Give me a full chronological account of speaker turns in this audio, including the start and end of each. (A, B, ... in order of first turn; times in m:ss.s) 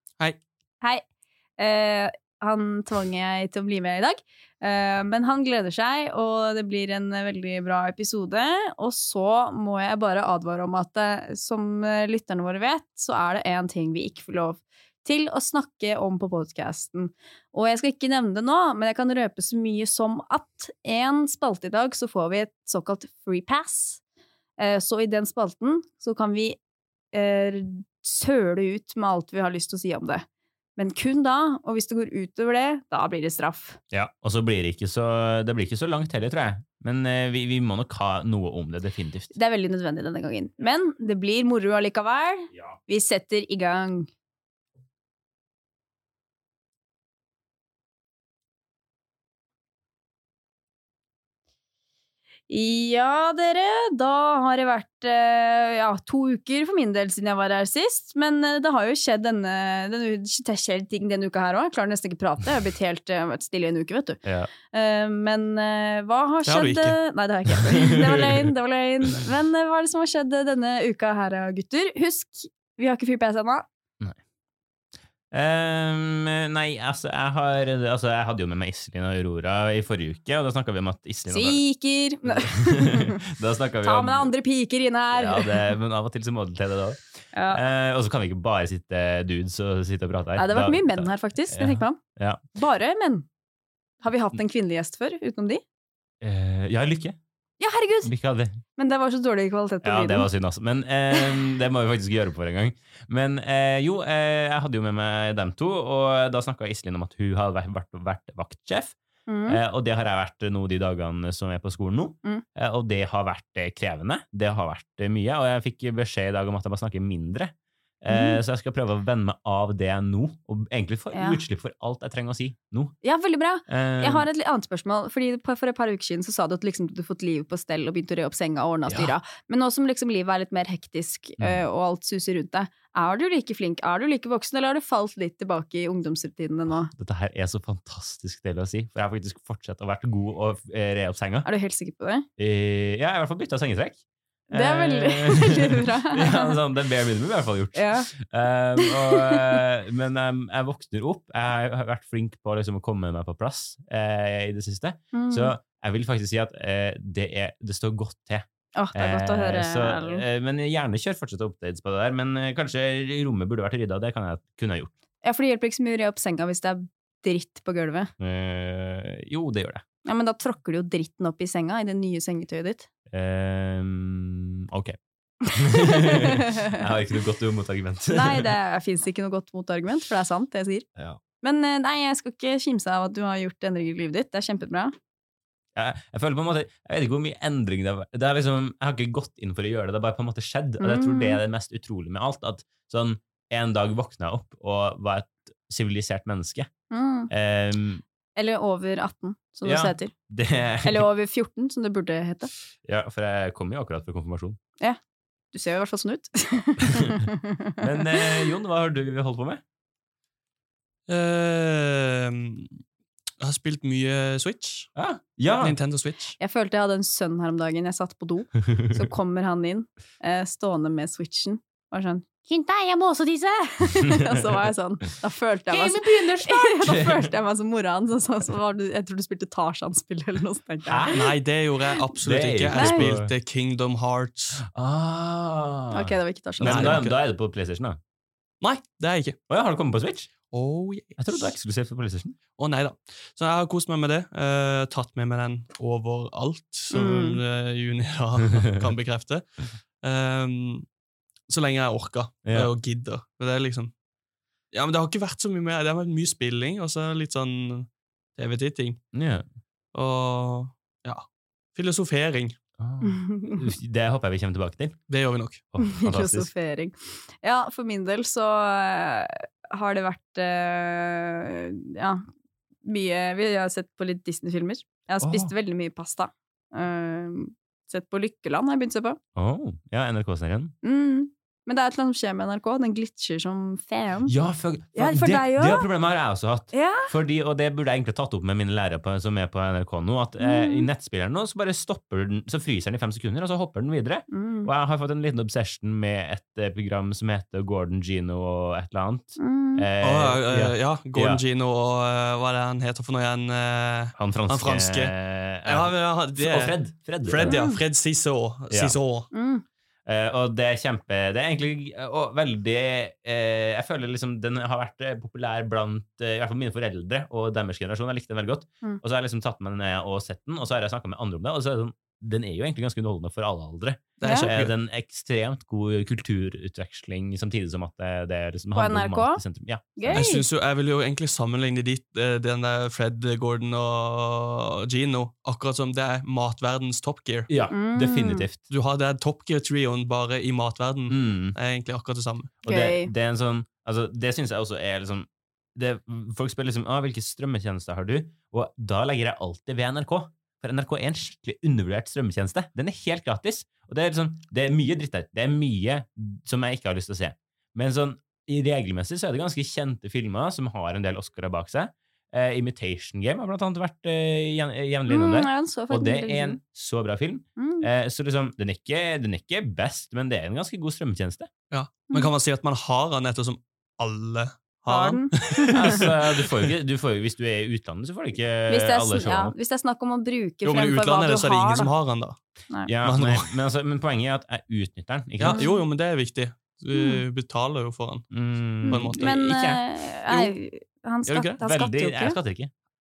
0:01.6-0:24.0 A
0:24.6-0:26.6 A
0:27.1-0:33.8 A
0:33.9-0:39.3 B
0:39.3-0:44.1 A
0:52.5-1:13.7 A
1:04.2-1:04.5 B
1:06.4-1:07.0 C
1:15.3-1:21.6 B
1:21.3-1:23.2 A
1:22.2-1:24.3 B
1:23.8-1:25.7 A
1:25.1-1:32.4 B
1:27.3-1:27.6 A
1:30.4-1:32.0 A
1:32.6-1:33.3 A
1:34.0-1:35.6 A
1:36.2-1:37.2 B
1:37.6-1:38.1 A
1:38.0-1:38.6 B
1:38.8-1:40.3 A
1:39.8-2:03.0 B
1:49.3-1:49.6 A
1:58.1-1:58.4 A
2:01.1-2:01.4 A
2:03.0-2:16.9 A
2:03.7-2:04.3 B
2:08.9-2:09.1 B
2:16.7-2:21.5 B
2:21.4-2:22.3 A
2:22.4-2:24.0 B
2:24.5-2:26.6 A
2:24.5-2:44.9 B
2:27.8-2:28.1 A
2:28.8-2:29.6 A
2:35.1-2:35.5 A
2:38.8-2:40.2 A
2:45.2-2:48.1 A
2:48.2-2:49.8 B
2:50.0-2:52.9 A
2:53.1-2:58.5 B
2:55.6-2:56.8 A
2:58.1-3:00.9 A
3:01.4-3:05.0 A
3:05.8-3:16.7 B
3:10.8-3:11.4 A
3:16.9-3:17.3 A
3:17.3-3:18.0 B
3:18.4-3:20.1 A
3:19.6-3:21.1 B
3:20.8-3:22.5 A
3:22.8-3:24.6 B
3:25.5-3:28.4 A
3:26.8-3:27.3 B
3:27.8-3:29.6 B
3:31.1-3:32.8 C
3:33.4-3:34.9 C
3:35.0-3:35.8 B
3:35.6-3:36.4 C
3:36.4-3:51.2 A
3:45.7-3:47.3 B
3:50.9-3:51.4 B
3:51.1-3:54.6 C
3:52.2-3:53.3 B
3:52.7-3:53.1 A
3:54.6-3:58.0 B
3:55.9-3:57.0 A
3:56.6-3:57.2 C
3:58.6-3:59.4 C
3:59.5-4:00.3 B
4:00.5-4:01.5 C
4:01.2-4:02.4 B
4:02.6-4:10.9 C
4:06.9-4:07.4 A
4:11.5-4:13.9 C
4:12.4-4:12.7 B
4:14.7-4:19.0 C
4:19.1-4:19.4 B
4:19.9-4:22.6 C
4:22.8-4:25.0 B
4:23.0-4:23.7 A
4:25.1-4:25.6 C
4:25.7-4:26.5 B
4:25.8-4:32.3 A
4:32.8-4:39.2 A
4:35.2-4:35.5 B
4:39.4-4:40.7 B
4:40.8-4:44.3 A
4:44.2-5:01.4 B
4:44.9-4:45.9 A
4:46.7-4:47.1 A
4:50.4-4:50.9 A
4:54.3-4:54.7 A
4:59.4-4:59.9 A
5:00.0-5:09.3 C
5:04.2-5:07.7 B
5:07.4-5:07.8 A
5:08.7-5:09.0 B
5:09.3-5:09.6 A
5:10.1-5:30.2 B
5:24.2-5:24.7 C
5:24.2-5:24.5 A
5:28.8-5:29.4 A
5:30.0-5:30.4 A
5:30.1-5:37.5 C
5:37.5-5:38.6 B
5:37.7-5:38.5 A
5:38.7-5:42.5 C
5:41.1-5:41.6 B
5:42.6-6:11.5 B
5:42.7-5:43.1 A
6:05.1-6:06.6 A
6:07.6-6:07.9 A
6:11.7-6:16.7 C
6:14.9-6:16.0 A
6:15.7-6:19.6 B
6:18.7-6:21.9 A
6:20.6-6:22.4 C
6:22.9-6:25.7 B
6:23.0-6:23.6 C
6:25.4-6:28.3 C
6:25.4-6:25.8 A
6:26.9-6:27.2 A
6:28.3-6:30.5 B
6:28.8-6:32.4 A
6:28.9-6:29.4 C
6:31.3-6:31.6 C
6:31.6-6:32.7 B